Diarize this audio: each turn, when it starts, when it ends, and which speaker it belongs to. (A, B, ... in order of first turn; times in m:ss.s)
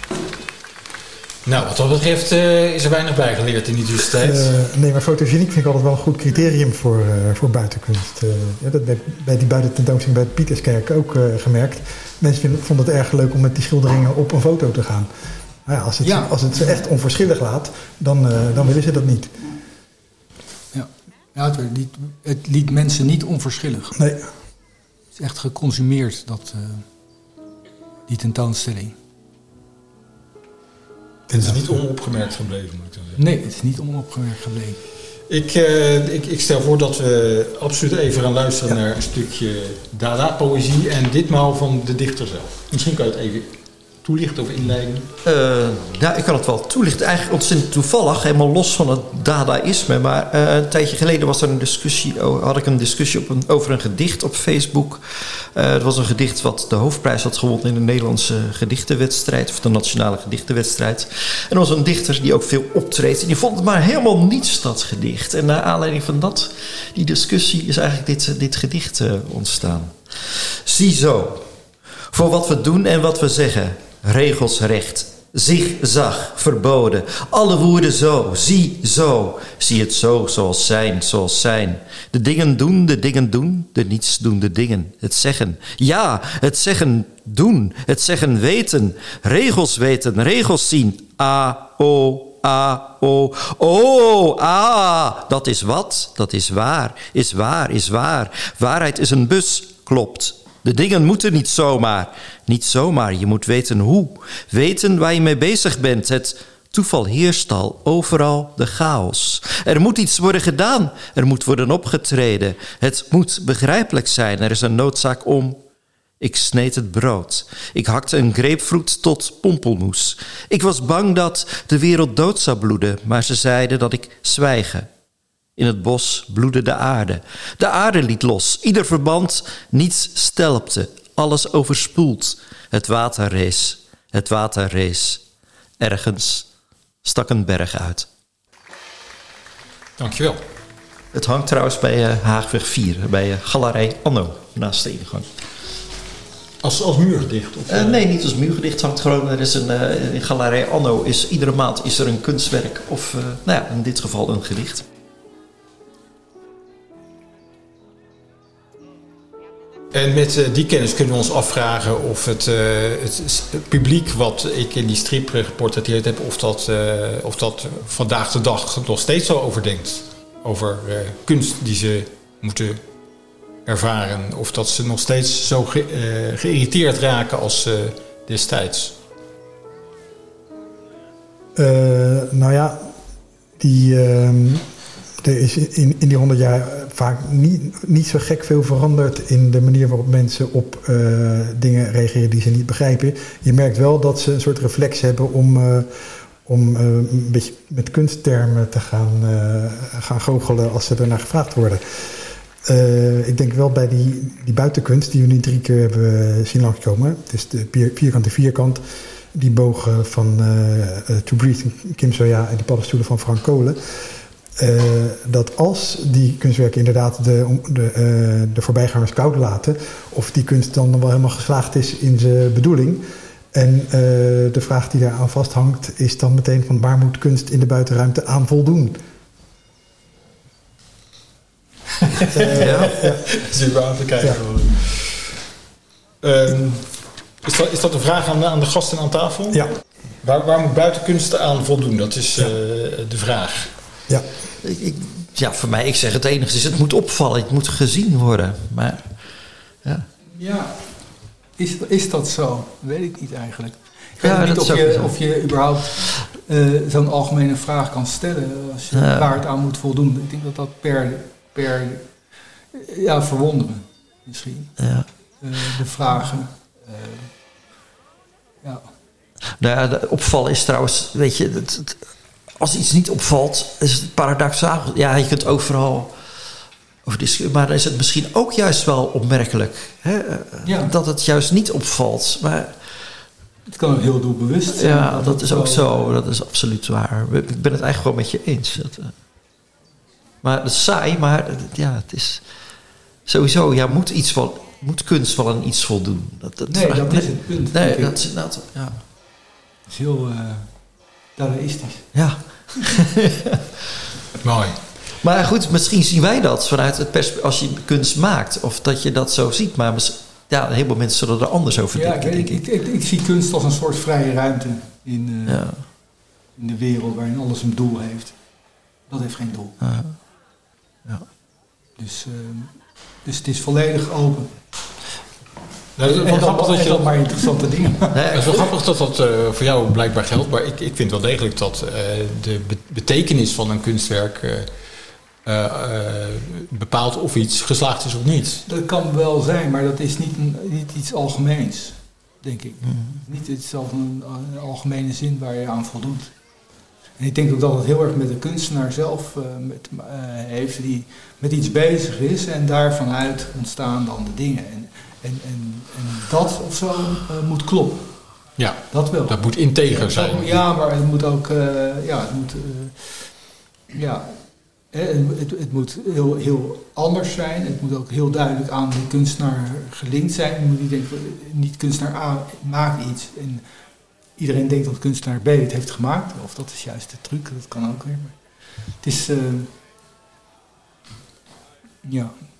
0:01.4-0:04.5 A
0:04.2-0:15.1 B
0:15.6-0:19.4 B
0:16.0-0:16.7 C
0:20.7-0:24.0 C
0:24.0-0:24.3 B
0:25.2-0:26.9 C
0:28.1-0:29.0 C
0:31.3-0:31.8 B
0:31.4-0:33.2 A
0:33.2-0:34.8 C
0:35.3-0:45.1 A
0:45.2-1:11.4 D
1:12.1-1:55.6 D
1:56.2-2:04.9 D
2:05.6-2:15.2 D
2:15.8-2:16.5 D
2:17.0-2:18.1 D
2:20.0-2:20.4 A
2:21.1-2:25.3 D
2:26.6-2:28.0 A
2:27.7-2:34.9 D
2:39.9-2:52.8 A
2:53.7-2:59.0 A
3:01.6-3:02.9 B
3:03.6-3:04.6 B
3:05.2-3:15.9 B
3:16.4-3:28.8 B
3:29.3-3:33.8 B
3:34.6-3:49.0 B
3:52.2-3:55.4 A
3:52.3-3:53.2 B
3:52.6-3:53.0 D
3:56.2-3:56.9 A
3:57.4-3:59.6 A
4:00.2-4:03.7 A
4:04.6-4:10.1 D
4:10.4-4:22.1 C
4:14.2-4:15.2 D
4:18.9-4:19.3 D
4:22.7-4:24.8 C
4:24.8-4:25.1 D
4:25.4-4:27.3 C
4:28.6-4:28.9 C
4:29.6-4:36.1 D
4:37.1-4:43.0 D
4:40.6-4:40.9 C
4:43.7-4:46.2 C
4:44.7-4:49.1 D
4:50.4-4:52.5 D
4:53.3-4:59.0 D
4:56.7-4:58.3 C
4:59.9-5:02.5 C
5:02.1-5:03.6 D
5:04.4-5:04.9 A
5:05.2-5:12.6 D
5:11.9-5:18.4 C
5:15.5-5:15.8 D
5:19.1-5:19.8 C
5:19.8-5:20.3 D
5:22.0-5:24.7 C
5:26.0-5:27.5 A
5:26.1-5:28.6 C
5:28.1-5:28.7 D
5:28.3-5:34.7 A
5:35.4-5:38.6 A
5:38.7-5:46.3 C
5:42.8-5:43.2 D
5:47.2-5:58.3 C
5:58.6-6:00.6 A
5:58.9-6:13.6 C
6:14.4-6:18.4 C
6:19.0-6:19.7 C
6:22.0-6:22.3 C